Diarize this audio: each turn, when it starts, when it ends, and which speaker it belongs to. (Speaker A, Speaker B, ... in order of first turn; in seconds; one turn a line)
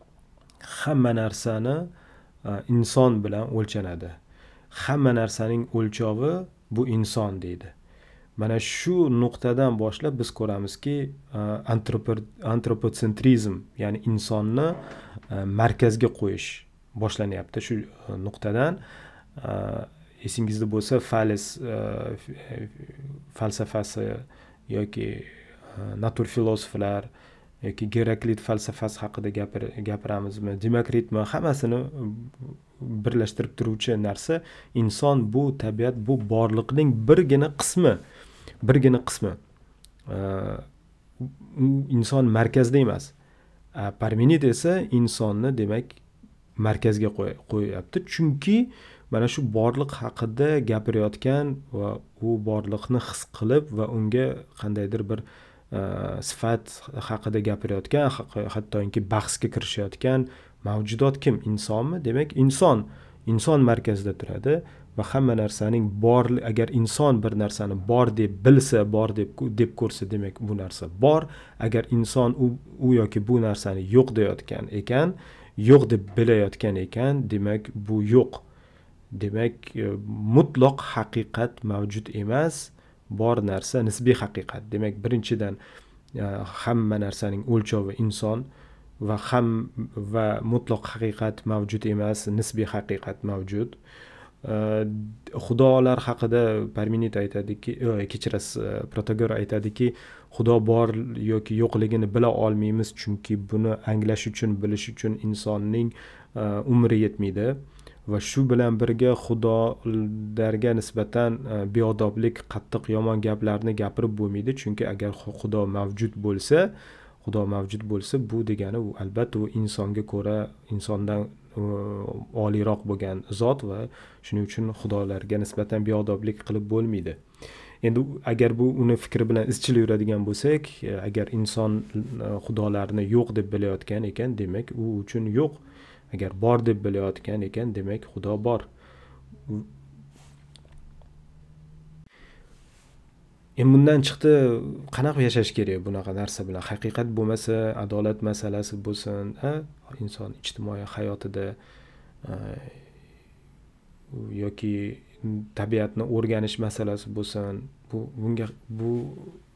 Speaker A: 0.6-1.9
Speaker A: 2.4-4.2
Speaker A: 4.7-7.7
Speaker A: 8.4-18.8
Speaker A: 19.4-27.1
Speaker A: 27.6-38.0
Speaker A: 38.6-39.4
Speaker A: 40.1-40.7
Speaker A: 41.2-43.1
Speaker A: 43.8-46.0
Speaker A: 46.6-78.4
Speaker A: 79.1-85.6
Speaker A: 86.1-88.5
Speaker A: 89.0-93.8
Speaker A: 94.4-107.6
Speaker A: 108.1-116.7
Speaker A: 117.2-127.2
Speaker A: 127.8-138.7
Speaker A: 143.6-151.6
Speaker A: 152.2-152.8
Speaker A: 154.1-159.4